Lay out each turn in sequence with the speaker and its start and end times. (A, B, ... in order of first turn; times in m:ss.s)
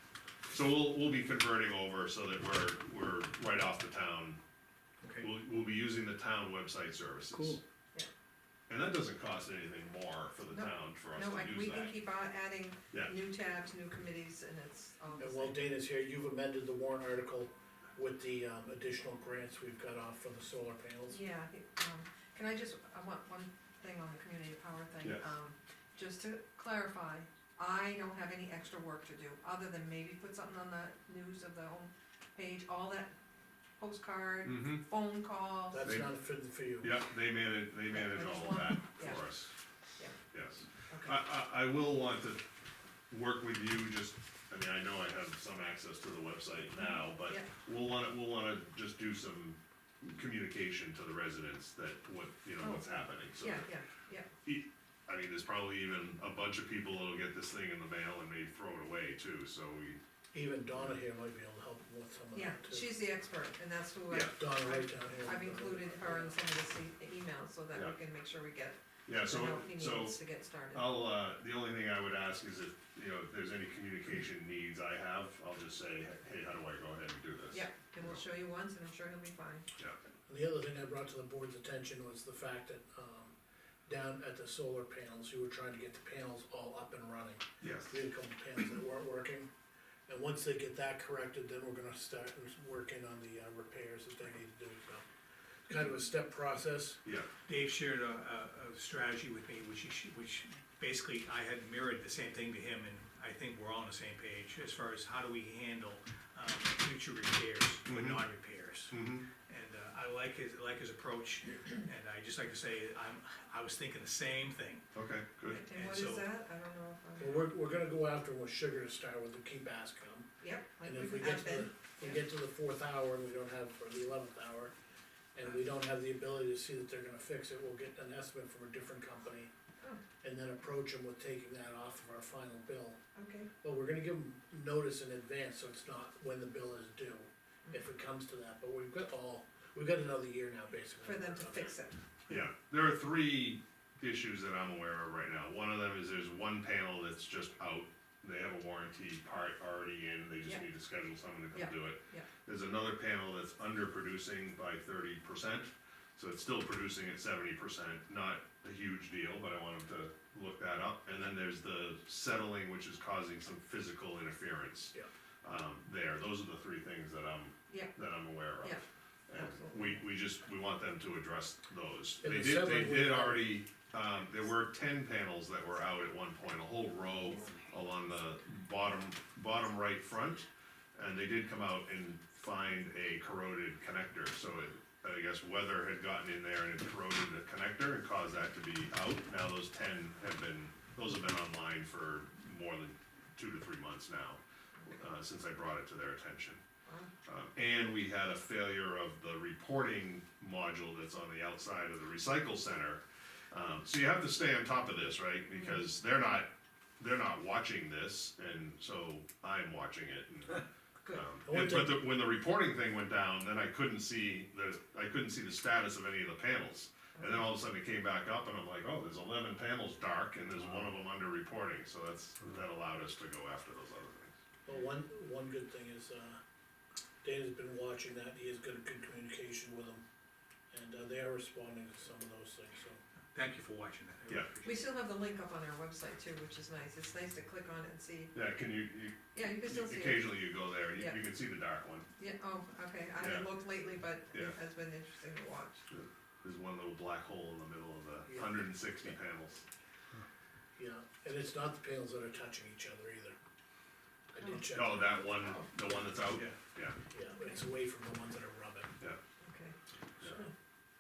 0:00.5-0:04.4 A
0:05.0-0:05.3 B
0:05.2-0:07.6 A
0:07.3-0:07.6 B
0:08.7-0:12.0 A
0:10.5-0:15.6 C
0:15.2-0:21.2 D
0:21.1-0:33.1 C
0:25.0-0:25.3 A
0:33.8-0:35.8 C
0:34.4-0:34.8 A
0:35.7-0:36.9 D
0:36.8-0:39.5 A
0:37.9-0:39.3 C
0:40.3-0:42.4 A
0:40.9-0:41.2 C
0:43.1-0:53.7 A
0:46.8-0:47.5 C
0:52.6-0:54.3 C
0:54.4-1:00.0 A
1:00.3-1:02.9 D
1:02.3-1:10.9 C
1:04.1-1:06.4 D
1:09.1-1:10.2 A
1:10.7-1:18.2 A
1:17.5-1:19.7 C
1:20.3-1:23.4 D
1:23.9-1:29.5 D
1:27.6-1:28.0 A
1:30.1-1:35.0 D
1:35.7-1:37.0 D
1:37.5-1:54.8 B
1:47.9-1:48.2 A
1:48.9-1:49.3 A
1:55.0-1:55.6 A
1:55.5-1:57.4 C
1:55.8-1:56.3 B
1:57.2-2:00.3 D
2:00.4-2:02.2 C
2:00.8-2:04.7 D
2:05.4-2:09.5 D
2:10.2-2:13.0 D
2:13.2-2:13.5 C
2:13.6-2:21.8 D
2:21.0-2:22.0 C
2:22.3-3:16.6 A
2:31.5-2:32.3 C
2:47.7-2:48.0 C
2:49.4-2:49.9 C
2:52.2-2:53.6 D
3:16.9-3:17.1 C
3:17.3-3:44.3 A
3:31.4-3:32.0 D
3:44.7-3:46.4 D
3:47.2-3:50.0 D
3:50.7-3:53.0 D
3:53.3-3:54.8 B
3:54.6-3:58.3 C
3:58.3-4:02.1 A
3:59.3-4:01.2 C
4:02.2-4:05.8 C
4:03.2-4:03.5 A
4:05.9-4:09.6 A
4:08.3-4:08.6 D
4:10.8-4:13.4 D
4:14.3-4:15.4 D
4:14.4-4:14.7 C
4:14.7-4:17.0 A
4:17.1-4:18.9 D
4:17.3-4:17.6 C
4:19.4-4:19.8 C
4:20.2-4:20.5 A